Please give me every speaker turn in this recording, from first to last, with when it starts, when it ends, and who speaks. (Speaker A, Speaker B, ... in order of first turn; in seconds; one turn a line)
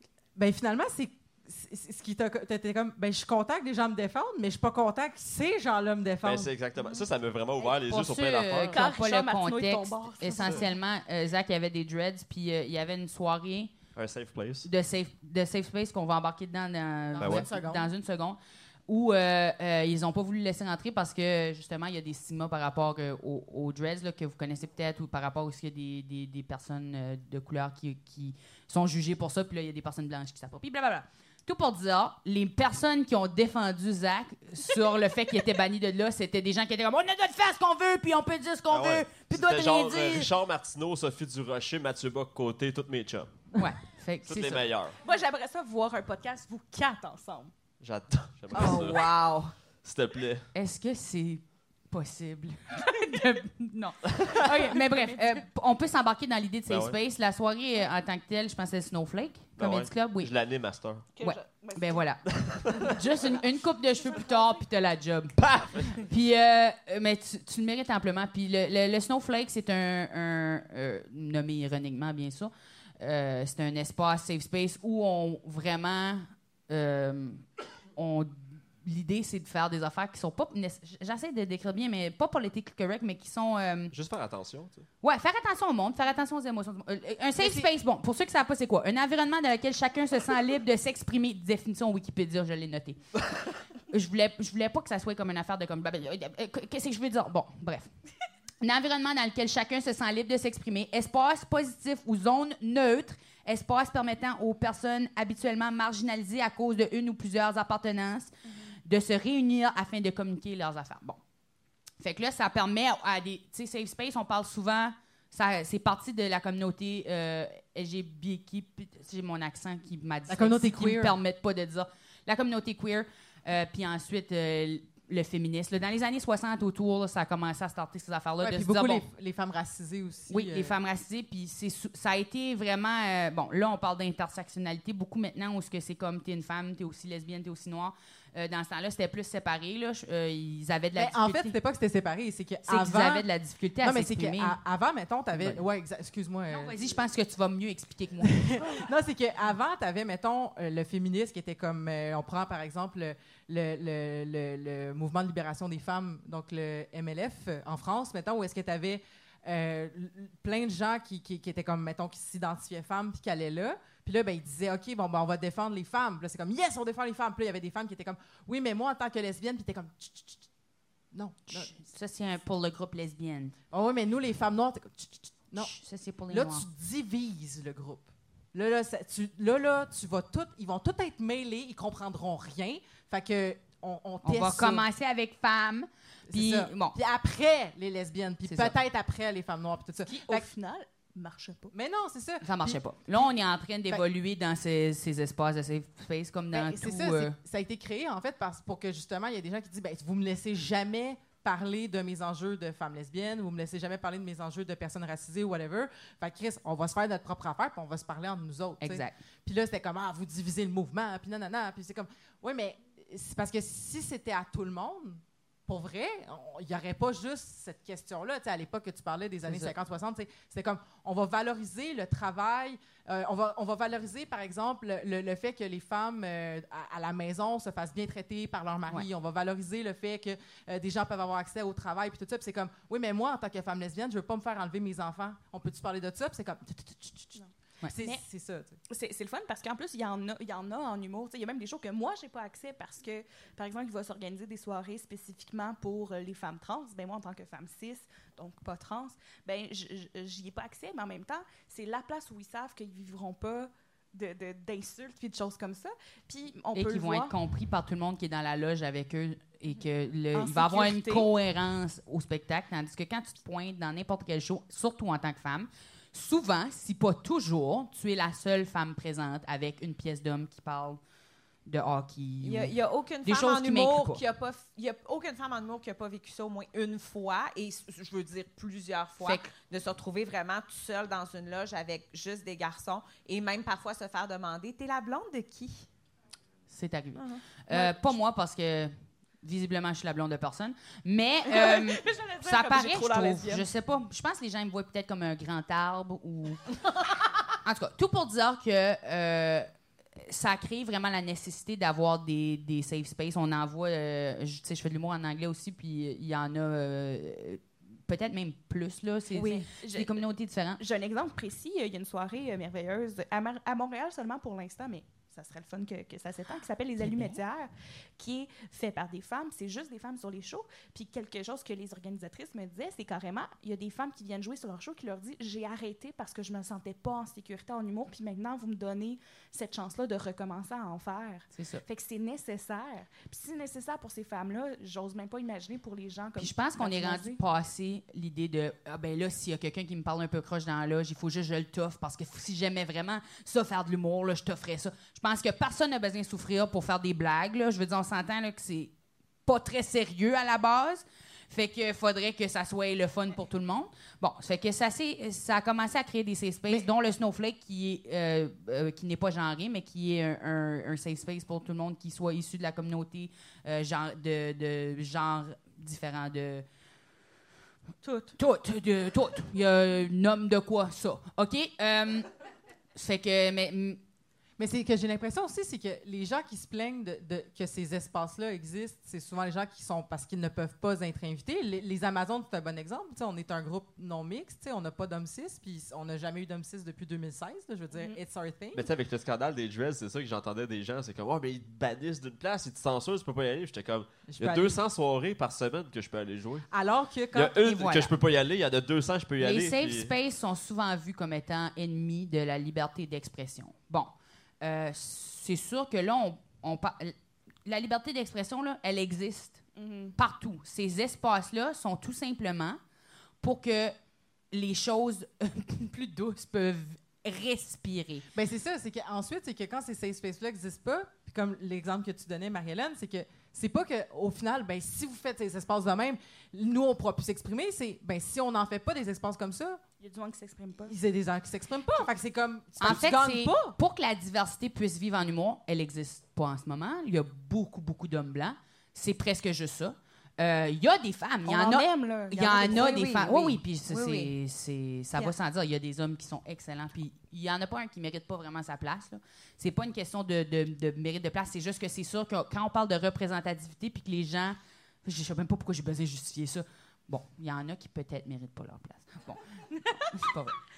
Speaker A: 0.3-6.5
Speaker B: 6.2-8.9
Speaker C: 7.8-13.7
Speaker D: 8.7-10.7
Speaker B: 10.3-10.6
Speaker B: 13.9-14.7
Speaker C: 14.6-40.3
Speaker A: 17.1-17.9
Speaker B: 17.2-17.5
Speaker B: 38.7-43.5
Speaker C: 43.5-44.6
Speaker B: 44.2-45.0
Speaker D: 45.0-47.5
Speaker B: 47.8-50.5
Speaker E: 48.5-49.5
Speaker C: 50.5-60.3
Speaker D: 54.7-55.4
Speaker B: 56.7-57.0
Speaker B: 59.6-61.1
Speaker D: 61.1-62.1
Speaker C: 61.2-62.2
Speaker B: 62.3-63.0
Speaker C: 62.8-83.9
Speaker D: 64.0-64.5
Speaker B: 65.4-66.0
Speaker B: 83.9-84.8
Speaker C: 85.0-93.0
Speaker A: 87.4-87.7
Speaker C: 93.9-97.9
Speaker C: 98.6-108.3
Speaker D: 108.5-108.7
Speaker C: 108.8-111.2
Speaker C: 112.0-129.1
Speaker A: 120.3-121.2
Speaker A: 128.4-130.8
Speaker C: 130.3-141.6
Speaker A: 140.9-143.3
Speaker C: 142.6-144.6
Speaker A: 143.8-146.8
Speaker C: 145.3-145.6
Speaker C: 146.5-148.4
Speaker A: 148.2-170.5
Speaker A: 171.1-171.7
Speaker C: 171.5-173.5
Speaker A: 173.7-175.7
Speaker C: 175.6-176.6
Speaker A: 176.3-184.8
Speaker C: 184.2-186.9
Speaker A: 186.3-190.5
Speaker C: 188.4-188.7
Speaker D: 190.1-191.7
Speaker A: 191.7-193.3
Speaker C: 192.4-197.4
Speaker A: 196.5-238.8
Speaker C: 208.8-209.2
Speaker C: 219.5-219.7
Speaker D: 238.9-257.3
Speaker C: 256.7-271.0
Speaker D: 260.3-261.3
Speaker C: 271.7-274.2
Speaker E: 272.4-285.9
Speaker C: 279.2-279.5
Speaker C: 286.7-296.6
Speaker E: 287.2-287.4
Speaker D: 291.5-293.6
Speaker C: 297.6-310.8
Speaker D: 309.3-310.2
Speaker D: 310.8-337.4
Speaker C: 317.0-317.4
Speaker C: 331.5-331.8
Speaker C: 336.4-348.9
Speaker C: 349.4-366.6
Speaker D: 368.0-368.4
Speaker C: 368.4-372.3
Speaker C: 372.9-374.0
Speaker A: 374.6-388.9
Speaker D: 387.9-388.2
Speaker B: 388.7-396.6
Speaker A: 394.3-394.8
Speaker A: 396.7-397.8
Speaker B: 397.3-400.1
Speaker C: 397.6-398.1
Speaker C: 399.4-407.1
Speaker C: 407.6-409.6
Speaker D: 409.7-410.1
Speaker C: 410.1-412.8
Speaker C: 413.4-413.9
Speaker C: 414.5-418.3
Speaker A: 418.3-429.8
Speaker D: 430.0-430.9
Speaker A: 430.9-433.8
Speaker C: 432.8-459.4
Speaker D: 441.4-443.6
Speaker E: 442.5-444.3
Speaker D: 459.8-460.1
Speaker C: 460.1-460.6